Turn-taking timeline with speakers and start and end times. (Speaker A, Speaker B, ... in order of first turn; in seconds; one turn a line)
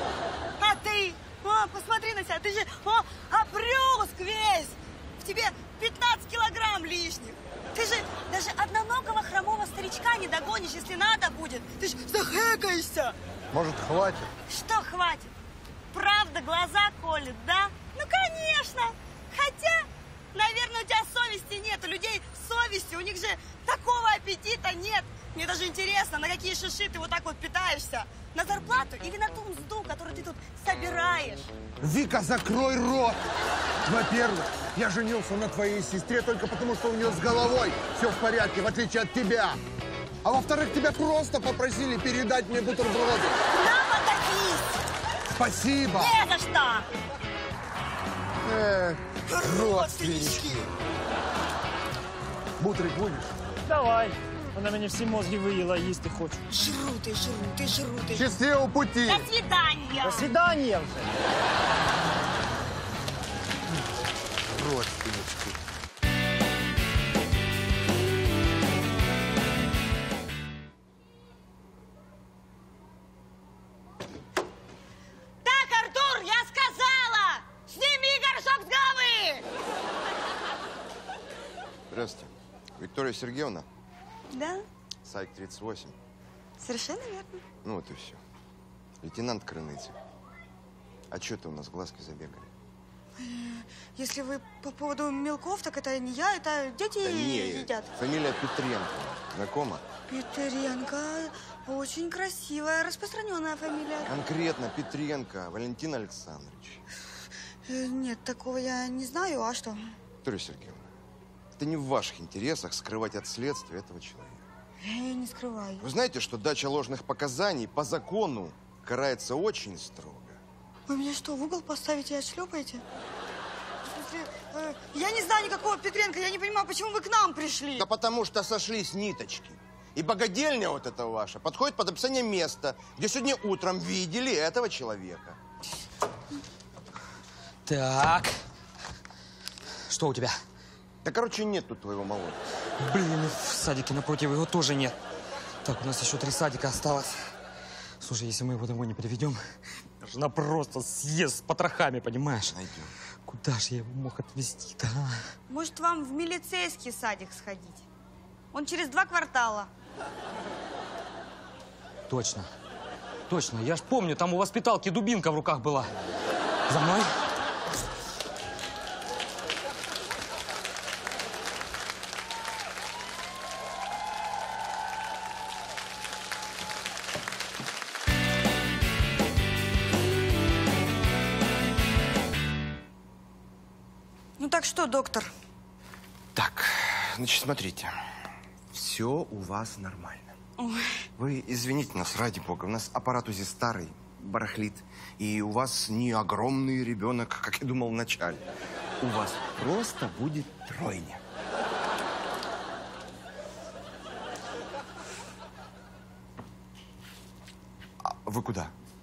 Speaker A: 0.6-13.2
Speaker B: 13.5-14.3
Speaker A: 14.5-15.3
Speaker A: 15.9-31.5
Speaker B: 31.8-33.2
Speaker B: 33.8-39.6
Speaker B: 40.2-43.4
Speaker A: 43.5-44.7
Speaker B: 45.3-46.1
Speaker A: 45.9-46.9
Speaker B: 48.4-50.6
Speaker A: 49.3-50.7
Speaker B: 52.6-53.3
Speaker C: 53.7-56.4
Speaker A: 56.5-58.3
Speaker B: 58.1-59.3
Speaker A: 59.1-60.3
Speaker C: 60.0-61.1
Speaker B: 64.5-65.5
Speaker A: 75.4-79.4
Speaker D: 81.9-83.7
Speaker A: 84.3-84.7
Speaker D: 85.0-86.0
Speaker A: 86.6-87.4
Speaker D: 87.6-88.2
Speaker D: 89.0-90.0
Speaker D: 91.1-92.5
Speaker A: 93.2-97.9
Speaker D: 97.0-99.8
Speaker A: 100.1-104.1
Speaker D: 104.0-106.8
Speaker A: 107.7-109.9
Speaker D: 110.2-110.9
Speaker D: 111.5-114.4
Speaker A: 114.8-115.8
Speaker D: 115.8-120.4
Speaker A: 120.9-122.8
Speaker A: 123.8-127.8
Speaker D: 127.8-135.4
Speaker E: 137.7-138.3
Speaker E: 139.9-140.3
Speaker D: 141.0-142.4
Speaker E: 142.8-144.9
Speaker E: 145.6-147.2
Speaker E: 148.0-149.4
Speaker E: 150.0-152.5
Speaker D: 152.4-152.9
Speaker E: 153.2-155.2
Speaker A: 155.5-157.8
Speaker A: 158.5-159.7
Speaker E: 162.1-162.5
Speaker E: 163.3-165.9
Speaker E: 166.7-167.1
Speaker A: 184.4-185.3
Speaker D: 186.3-187.9
Speaker D: 188.7-190.3
Speaker A: 190.6-190.9
Speaker D: 191.2-198.4
Speaker D: 199.0-201.2
Speaker D: 208.0-208.7